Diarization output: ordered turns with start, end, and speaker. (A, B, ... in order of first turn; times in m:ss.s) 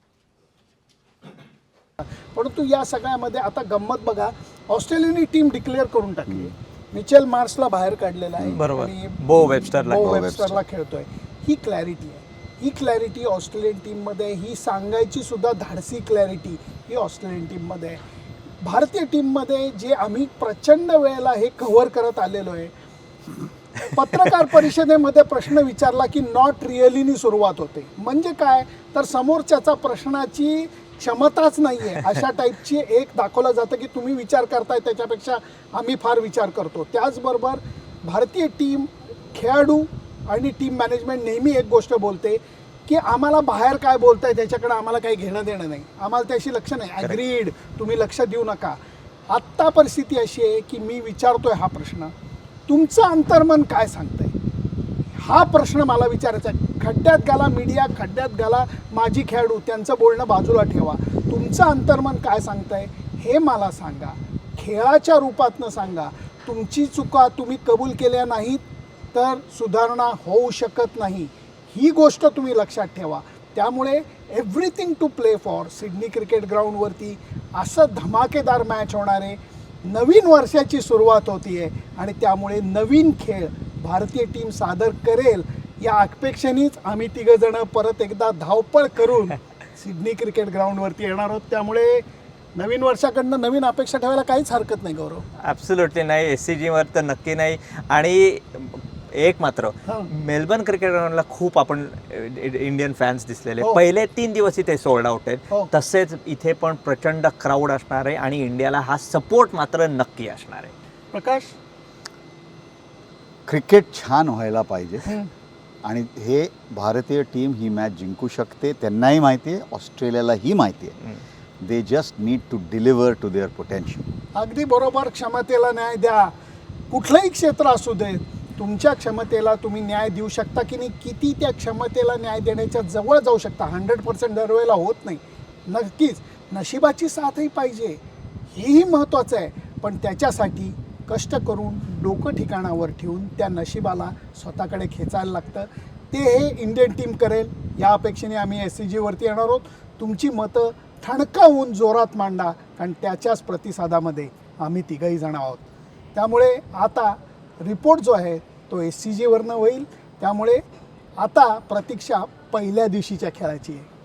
0:02.3-0:18.0 A
0:08.5-0:10.2 B
0:09.4-0:10.6 C
0:18.6-0:22.7 A
0:23.8-0:48.8 A
0:49.3-0:52.1 A
0:52.7-0:54.3 A
0:55.2-1:08.6 A
1:09.1-1:35.2 A
1:35.4-1:50.7 B
1:51.1-1:51.5 A
1:53.5-1:55.2 C
1:55.0-1:55.3 A
1:55.8-2:01.0 C
2:01.6-2:04.0 C
2:04.3-2:06.3 A
2:06.9-2:18.0 A
2:18.5-2:35.6 A
2:36.1-2:40.6 A
2:41.2-2:43.9 A